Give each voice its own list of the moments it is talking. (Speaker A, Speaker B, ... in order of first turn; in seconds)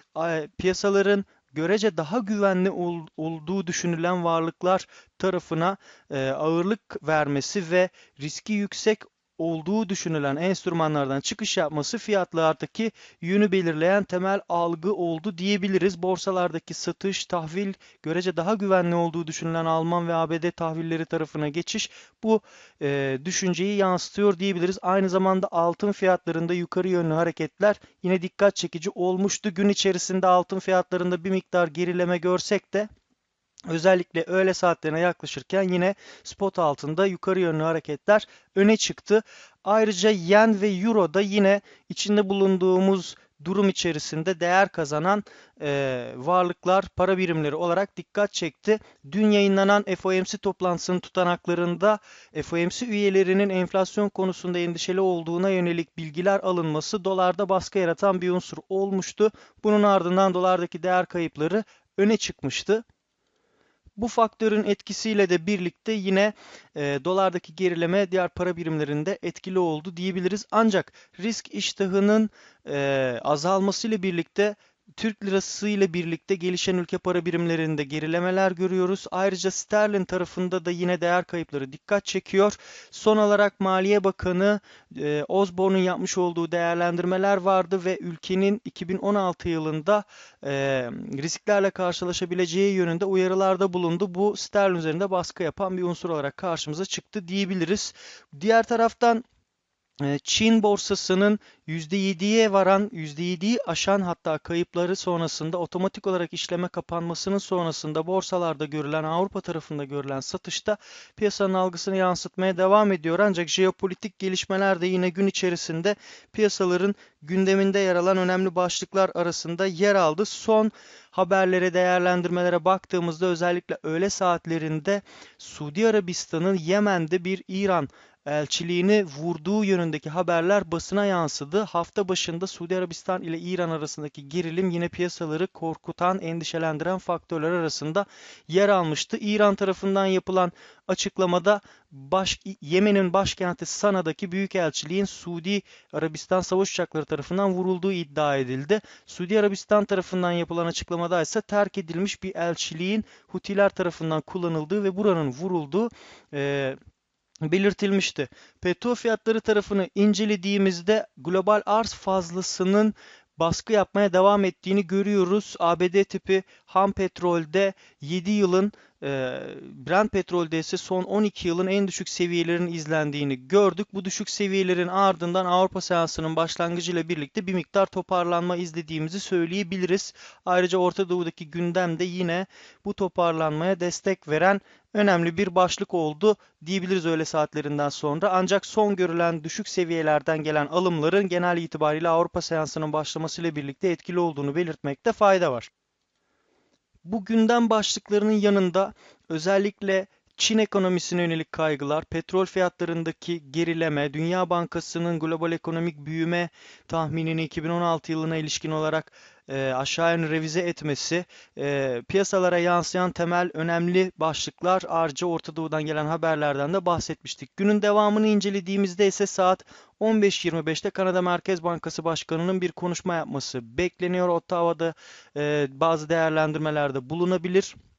Speaker A: 0.1-32.9, 33.7-62.8, 64.0-99.2, 100.0-156.8, 157.4-195.7, 197.1-227.8